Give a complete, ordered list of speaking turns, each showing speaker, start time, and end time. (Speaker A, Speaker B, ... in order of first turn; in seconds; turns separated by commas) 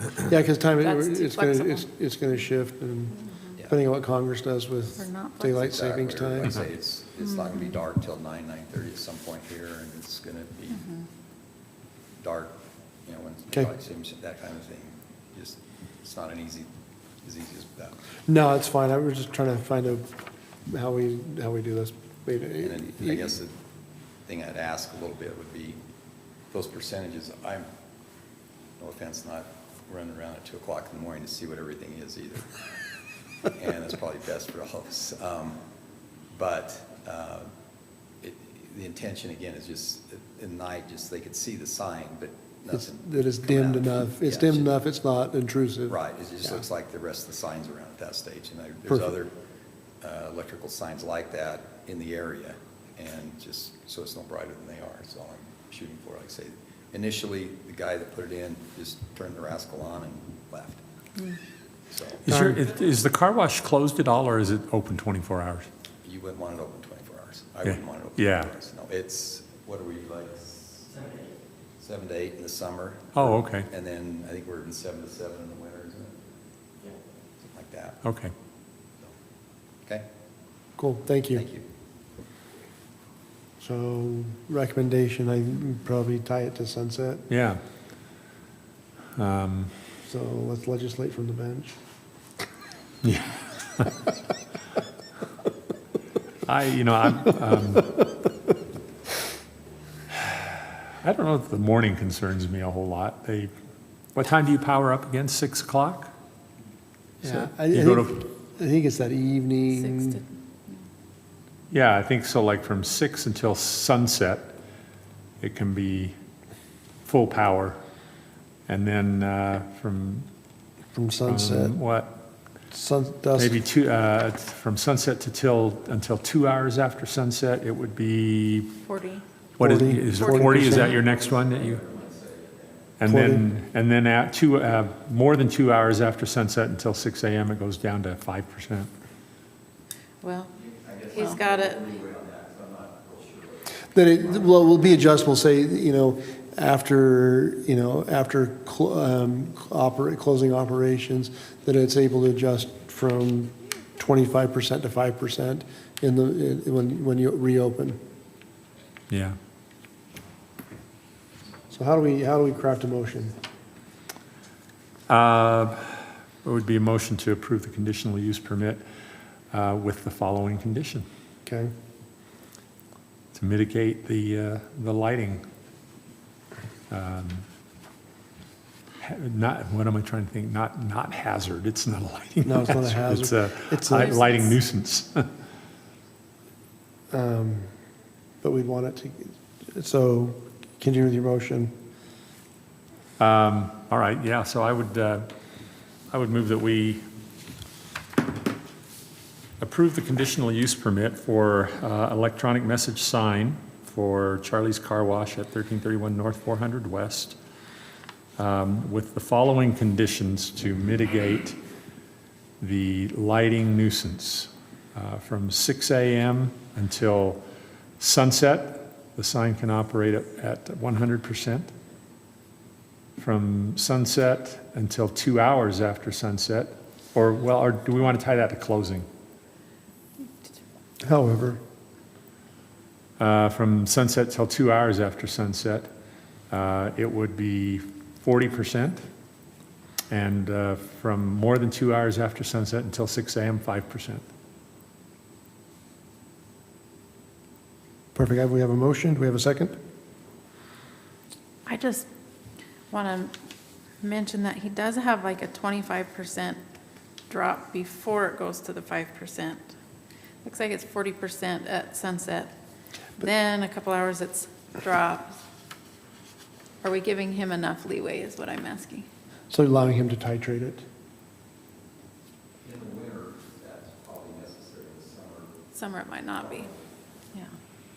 Speaker A: 0.3-6.5, Speaker B: 0.8-1.9, Speaker B: 3.2-3.5, Speaker B: 5.0-5.6, Speaker C: 5.5-10.9, Speaker C: 12.2-16.7, Speaker C: 17.2-18.0, Speaker A: 18.3-23.3, Speaker C: 22.6-23.6, Speaker C: 24.2-25.8, Speaker C: 26.5-27.7, Speaker C: 28.8-32.6, Speaker C: 33.4-35.6, Speaker C: 36.3-37.5, Speaker C: 38.2-44.7, Speaker A: 42.7-46.0, Speaker C: 45.9-49.3, Speaker C: 50.0-60.8, Speaker C: 61.9-62.3, Speaker D: 62.2-65.7, Speaker A: 62.3-62.6, Speaker C: 66.0-71.1, Speaker D: 67.6-68.5, Speaker C: 71.8-76.2, Speaker D: 73.1-73.7, Speaker C: 77.4-78.0, Speaker D: 78.0-78.3, Speaker A: 80.8-81.4, Speaker C: 81.3-81.7, Speaker A: 83.6-87.2, Speaker D: 87.3-87.6, Speaker D: 89.2-89.7, Speaker A: 90.0-91.7, Speaker D: 93.0-94.0, Speaker D: 96.5-98.0, Speaker D: 100.1-103.5, Speaker D: 104.1-106.1, Speaker D: 107.2-108.2, Speaker A: 107.2-110.2, Speaker B: 109.8-110.8, Speaker D: 111.7-114.6, Speaker D: 115.4-116.2, Speaker D: 117.0-117.8, Speaker D: 118.7-120.3, Speaker A: 120.9-121.7, Speaker D: 121.2-122.2, Speaker A: 122.7-123.5, Speaker D: 123.3-128.8, Speaker B: 128.8-129.2, Speaker D: 129.6-131.8, Speaker A: 129.6-131.0, Speaker B: 130.2-130.8, Speaker C: 130.7-132.9, Speaker D: 133.0-138.9, Speaker A: 133.1-133.4, Speaker B: 140.2-140.5, Speaker C: 140.5-143.8, Speaker B: 141.1-141.8, Speaker A: 143.9-158.0, Speaker C: 144.4-144.7, Speaker D: 159.1-159.4, Speaker A: 161.7-163.3, Speaker D: 165.1-168.8, Speaker D: 169.5-171.1, Speaker A: 171.4-171.7, Speaker D: 173.3-175.4, Speaker D: 176.9-177.4, Speaker D: 179.0-185.3, Speaker A: 182.4-184.6, Speaker A: 187.1-187.7, Speaker A: 188.4-191.7, Speaker D: 193.2-195.3, Speaker D: 196.1-197.0, Speaker D: 199.6-207.4, Speaker D: 208.4-211.6, Speaker D: 212.6-217.4, Speaker D: 218.0-221.7, Speaker D: 223.2-229.1, Speaker A: 231.0-231.6, Speaker D: 233.2-235.9, Speaker D: 236.5-239.1, Speaker D: 240.1-244.2, Speaker A: 248.1-249.8, Speaker B: 251.7-252.1, Speaker B: 252.9-253.3, Speaker B: 254.0-256.6, Speaker B: 257.3-259.6, Speaker B: 260.4-262.5, Speaker B: 263.2-265.4, Speaker B: 266.8-269.1, Speaker A: 269.5-270.8, Speaker C: 272.6-275.6, Speaker B: 275.7-276.7, Speaker C: 276.4-276.8